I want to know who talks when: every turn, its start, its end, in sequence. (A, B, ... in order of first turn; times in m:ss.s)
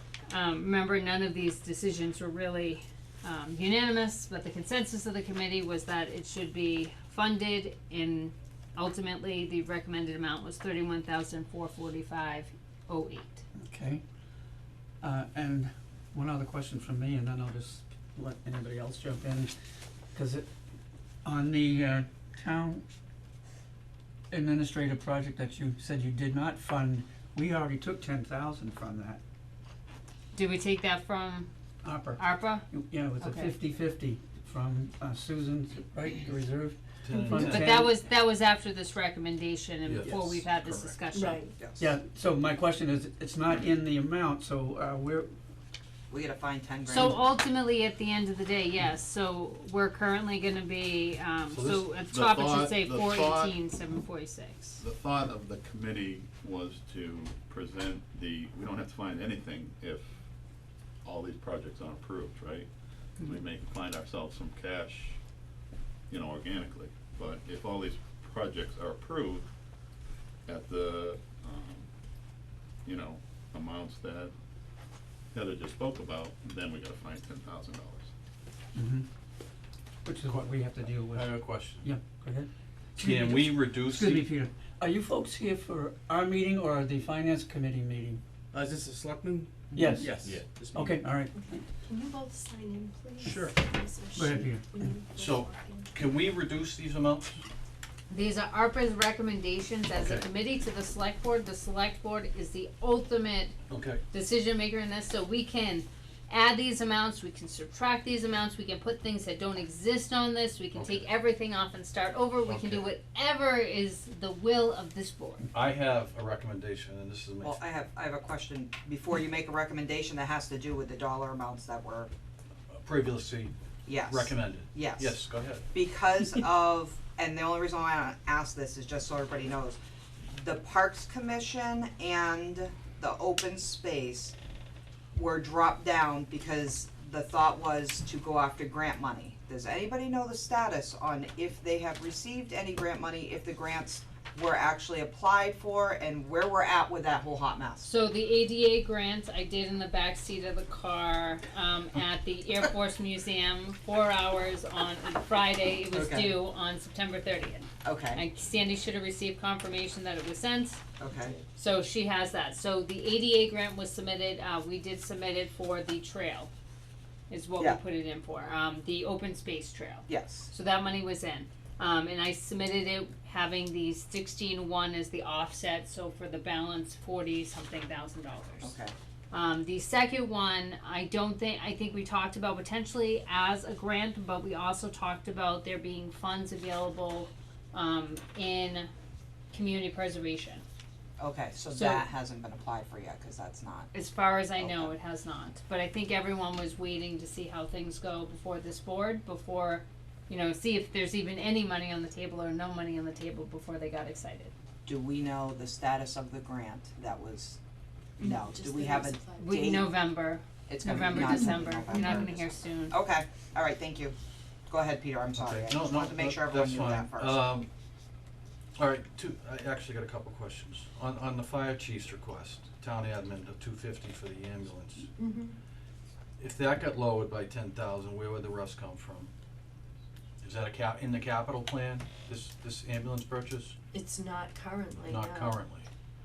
0:00.3-0:13.4 A
0:13.6-0:14.0 B
0:15.0-0:19.5 B
0:20.1-0:20.5 B
0:21.2-0:22.8 B
0:24.3-0:29.2 B
0:30.3-0:31.5 A
0:31.8-0:37.9 B
0:32.2-0:32.7 A
0:33.2-0:33.5 A
0:37.0-0:37.9 C
0:37.3-0:41.5 A
0:39.8-0:41.0 C
0:41.1-0:41.6 D
0:41.6-0:41.9 E
0:41.8-0:45.3 B
0:46.1-0:47.2 E
0:46.9-0:54.8 A
0:51.5-0:53.6 F
0:54.8-1:00.1 F
1:01.0-1:02.7 F
1:03.2-1:05.2 F
1:06.1-1:09.5 F
1:10.4-1:11.9 F
1:12.8-1:14.3 F
1:15.3-1:18.1 F
1:18.7-1:19.1 B
1:20.0-1:28.2 B
1:21.1-1:21.9 C
1:23.0-1:24.3 C
1:28.5-1:30.8 G
1:29.7-1:30.2 B
1:30.0-1:30.8 F
1:30.7-1:31.6 B
1:31.8-1:35.9 D
1:33.2-1:33.5 G
1:34.1-1:34.8 B
1:35.2-1:37.4 C
1:38.1-1:43.6 A
1:40.0-1:40.2 C
1:43.7-1:44.0 C
1:44.1-1:55.5 A
1:50.7-1:51.1 C
1:52.4-1:52.9 C
1:55.5-1:57.6 C
1:57.4-2:02.1 E
2:02.7-2:05.6 C
2:03.8-2:05.2 E
2:05.7-2:14.3 E
2:15.1-2:27.9 E
2:27.8-2:40.8 A
2:35.9-2:36.4 E
2:37.8-2:38.2 E
2:41.0-2:41.4 E
2:41.5-2:46.5 A
2:47.3-2:58.7 A
2:50.1-2:50.5 E
2:58.6-2:58.9 E
2:59.3-3:08.9 A
3:09.5-3:10.6 A
3:11.2-3:13.9 E
3:11.7-3:12.0 A
3:13.9-3:24.5 A
3:14.6-3:14.9 E
3:24.8-3:27.6 E
3:28.2-3:29.9 E
3:28.2-3:29.6 D
3:29.4-3:33.0 A
3:30.7-3:34.1 E
3:31.1-3:32.1 D
3:34.7-3:37.5 E
3:35.4-3:37.7 C
3:38.8-3:45.1 C
3:45.2-3:45.5 D
3:46.4-3:49.3 C
3:50.4-3:53.8 C
3:53.9-3:55.6 D
3:55.1-3:55.9 C